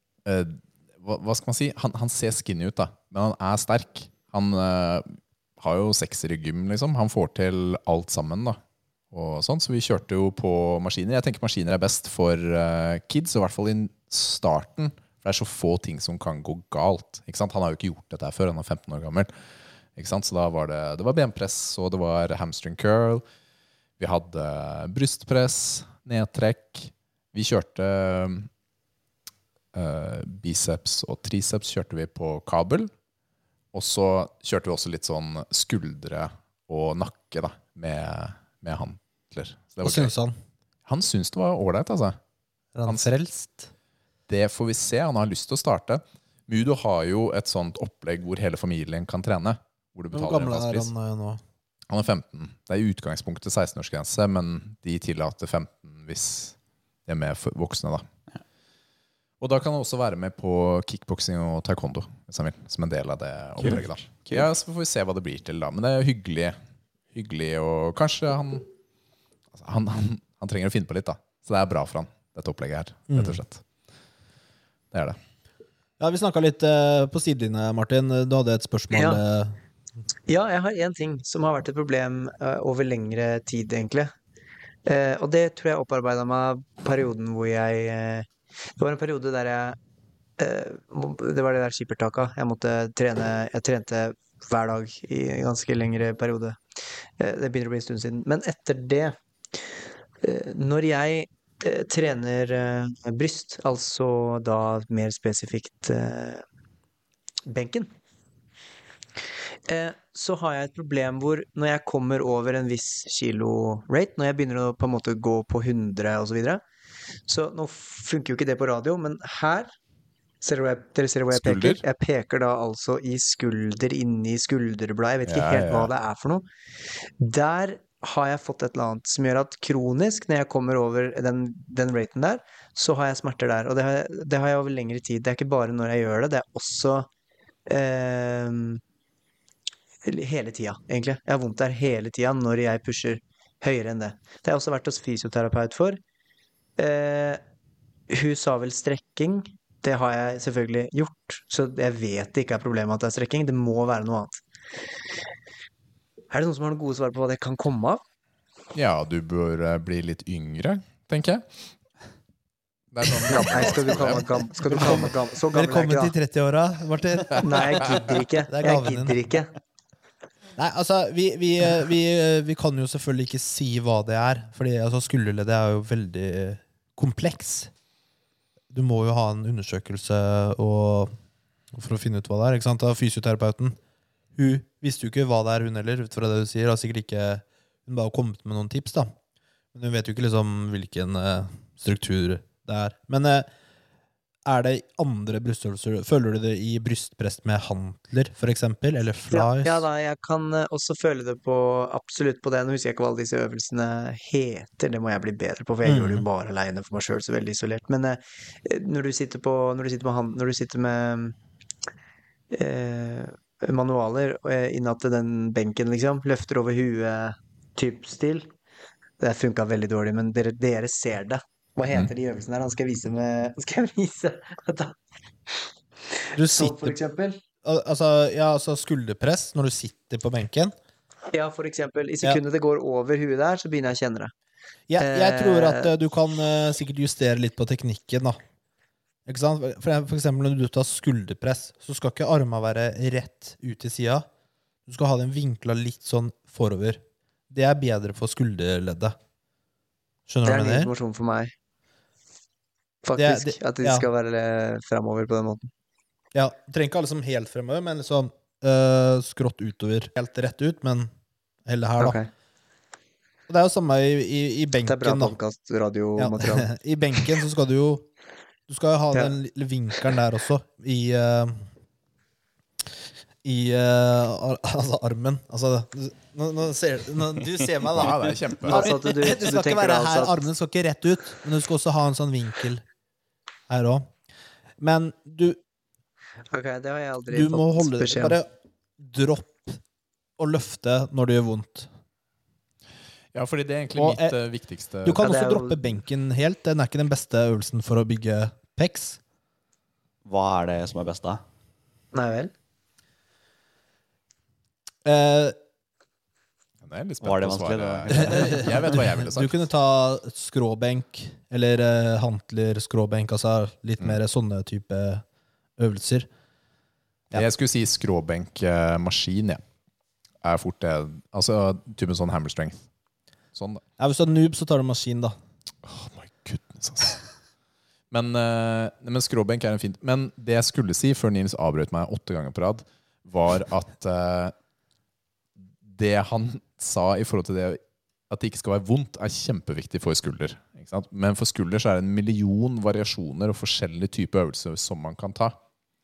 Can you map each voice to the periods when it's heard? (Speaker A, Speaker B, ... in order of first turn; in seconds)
Speaker A: 0.2-8.6, 9.1-19.3, 20.0-23.2, 24.0-28.5, 29.7-32.9, 33.7-40.1, 40.9-42.2, 44.3-50.9, 51.9-56.5, 57.1-58.0, 59.4-66.6, 67.1-68.7, 69.5-73.6, 74.9-75.2, 121.3-121.8, 125.3-125.9, 158.7-161.6, 162.9-165.1, 277.9-278.9, 293.3-295.3, 306.8-309.6, 317.3-319.6, 320.4-322.9, 323.5-323.8, 325.8-327.2, 328.1-334.5, 335.8-345.6
Speaker B: 39.8-40.4, 42.8-43.7, 50.1-51.4, 73.1-73.4, 76.0-79.6, 164.7-169.2, 170.6-177.7, 178.7-181.1, 181.7-183.8, 184.3-189.1, 189.7-193.5, 194.5-199.8, 205.8-206.3, 226.3-227.0, 227.6-230.7, 234.9-238.4, 239.3-244.3, 244.9-249.2, 250.3-250.9, 253.2-254.1, 256.3-261.1, 261.7-262.2, 263.5-265.4, 266.2-268.1, 268.7-271.7, 273.4-282.9, 283.7-284.1, 284.8-285.6, 287.3-289.8, 290.4-291.9, 293.9-294.4, 295.0-299.2, 305.1-305.6, 308.2-315.2, 315.8-316.3, 324.0-325.4
Speaker C: 63.6-64.5, 300.2-301.4, 307.2-309.1
Speaker D: 78.9-79.2, 80.3-84.1, 84.9-89.8, 90.4-96.6, 97.2-99.1, 100.2-106.4, 107.5-107.9, 109.7-116.6, 117.3-119.7, 120.4-126.5, 127.2-137.1, 137.7-138.8, 140.1-146.0, 146.8-147.4, 148.1-154.4, 156.3-158.0, 163.3-166.1, 167.4-169.5, 199.3-211.4, 212.5-218.5, 219.2-225.0, 226.3-227.4, 231.3-234.3, 235.0-235.9, 250.4-251.5, 253.0-255.7, 262.0-262.3, 264.9-266.7, 278.6-280.4, 286.5-288.4, 295.2-295.9, 302.1-302.5